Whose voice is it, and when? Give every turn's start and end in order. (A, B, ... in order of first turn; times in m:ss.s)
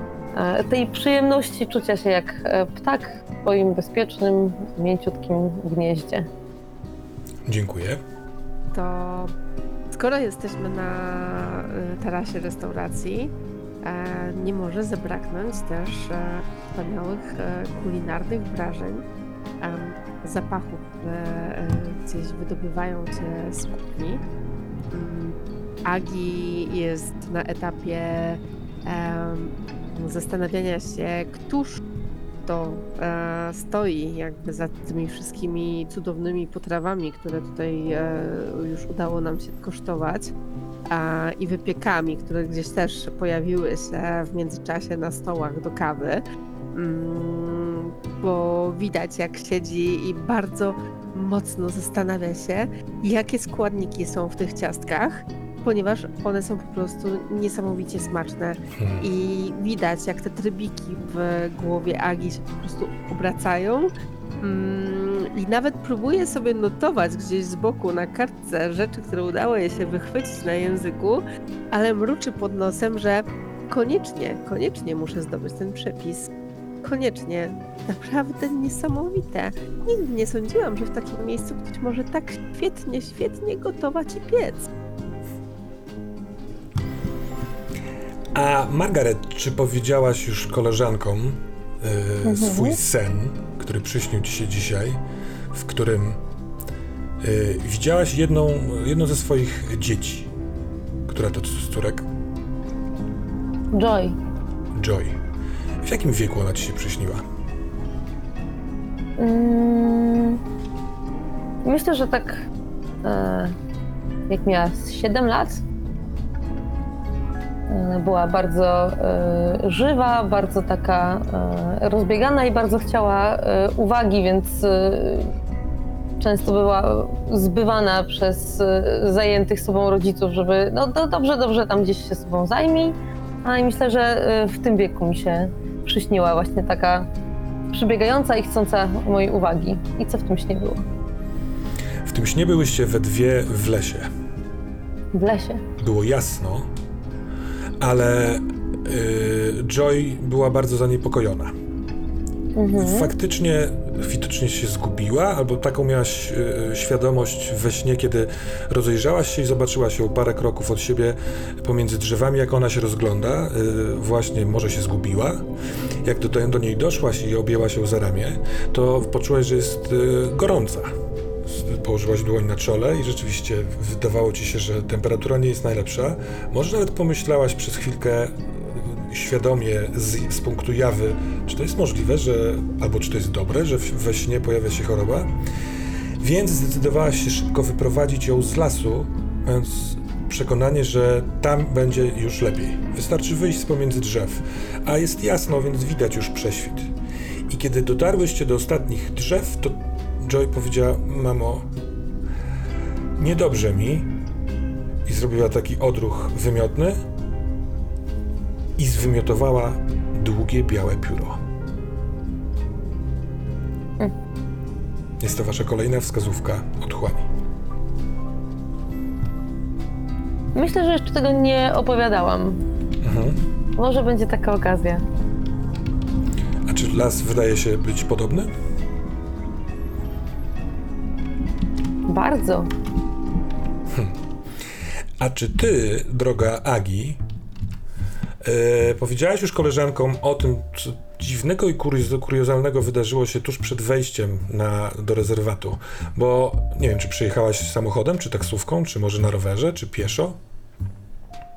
0:00.3-0:06.3 A
0:07.5-0:08.0 B
0:08.7-0:09.3 C
0:09.9-0:19.0 C
0:19.6-0:24.2 C
0:24.9-0:25.3 C
0:25.8-0:31.8 C
0:32.4-0:40.3 C
0:40.9-1:16.3 C
0:58.8-0:59.1 B
1:16.8-1:24.7 C
1:28.4-1:35.0 B
1:32.2-1:32.8 A
1:35.5-1:36.2 B
1:37.2-1:40.3 B
1:41.1-1:42.1 B
1:43.7-1:44.2 A
1:44.8-1:45.2 B
1:45.8-1:47.2 B
1:49.2-1:50.4 A
1:51.6-1:52.5 A
1:53.0-1:53.6 A
1:54.3-1:55.6 A
1:57.7-2:05.3 A
2:06.2-2:17.1 A
2:17.7-2:20.8 A
2:22.1-2:24.1 B
2:25.1-2:25.6 A
2:25.8-2:26.7 B
2:27.8-2:31.5 B
2:32.6-2:33.1 A
2:32.8-2:45.5 B
2:46.0-2:50.9 B
2:51.4-3:05.3 B
3:06.2-3:16.9 B
3:17.5-3:21.7 B
3:23.2-3:24.1 B
3:25.0-3:27.0 B
3:28.8-3:31.4 B
3:35.2-3:37.3 B
3:40.5-3:42.6 A
3:43.0-3:43.4 B
3:43.8-3:45.0 A
3:46.7-3:48.5 B
3:52.1-3:52.7 A
3:53.9-3:54.2 B
3:55.2-3:57.2 B
3:58.4-4:10.4 B